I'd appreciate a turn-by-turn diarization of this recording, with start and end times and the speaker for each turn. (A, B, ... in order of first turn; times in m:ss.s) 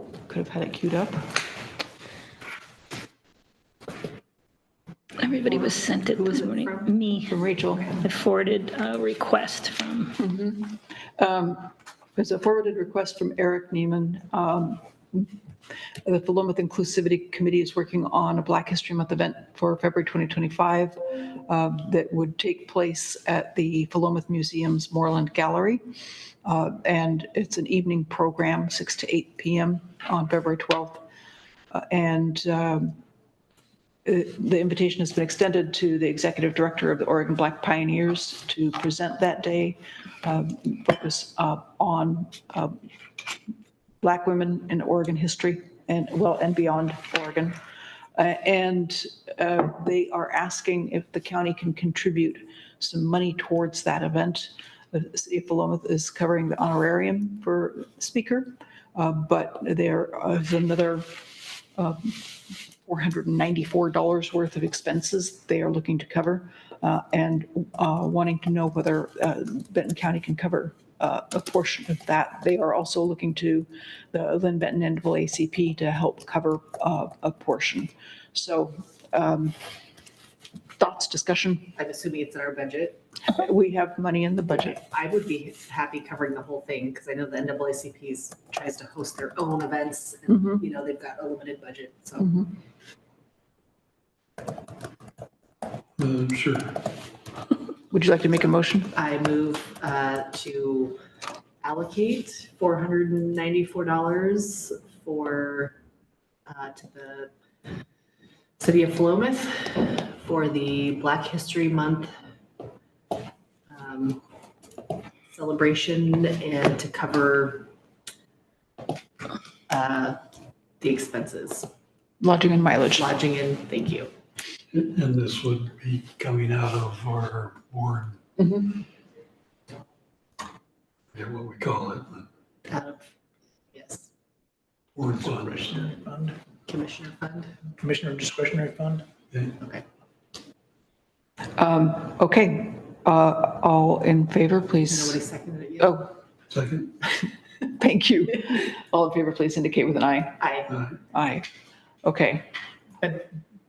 0:00.3-0:01.4 A
0:05.2-0:10.2 B
0:06.1-0:06.9 C
0:07.3-0:08.0 A
0:10.2-0:15.3 A
0:16.0-0:25.8 A
0:26.4-0:31.1 A
0:31.7-0:33.0 A
0:34.0-0:42.8 A
0:44.0-0:47.6 A
0:48.2-1:19.6 A
1:20.8-1:21.8 A
1:21.8-1:23.0 C
1:23.3-1:24.8 A
1:24.5-1:32.5 C
1:30.3-1:30.6 A
1:36.0-1:36.8 D
1:37.9-1:38.9 A
1:38.9-1:41.0 C
1:41.6-1:45.8 C
1:46.5-1:47.3 C
1:48.6-1:52.1 C
1:53.7-1:54.2 C
1:55.3-1:57.7 C
1:59.7-2:00.2 C
2:00.8-2:01.7 C
2:02.2-2:03.1 A
2:02.9-2:04.1 C
2:04.7-2:08.2 D
2:08.4-2:08.8 A
2:11.2-2:12.3 D
2:12.7-2:13.0 C
2:13.7-2:14.1 C
2:15.0-2:15.7 D
2:15.1-2:16.4 E
2:16.7-2:17.6 C
2:17.8-2:19.1 E
2:21.6-2:25.2 A
2:24.9-2:26.1 C
2:25.8-2:26.1 A
2:26.5-2:27.0 D
2:27.6-2:30.4 A
2:30.4-2:30.8 C
2:31.1-2:31.5 A
2:32.0-2:32.5 A
2:33.0-2:33.3 E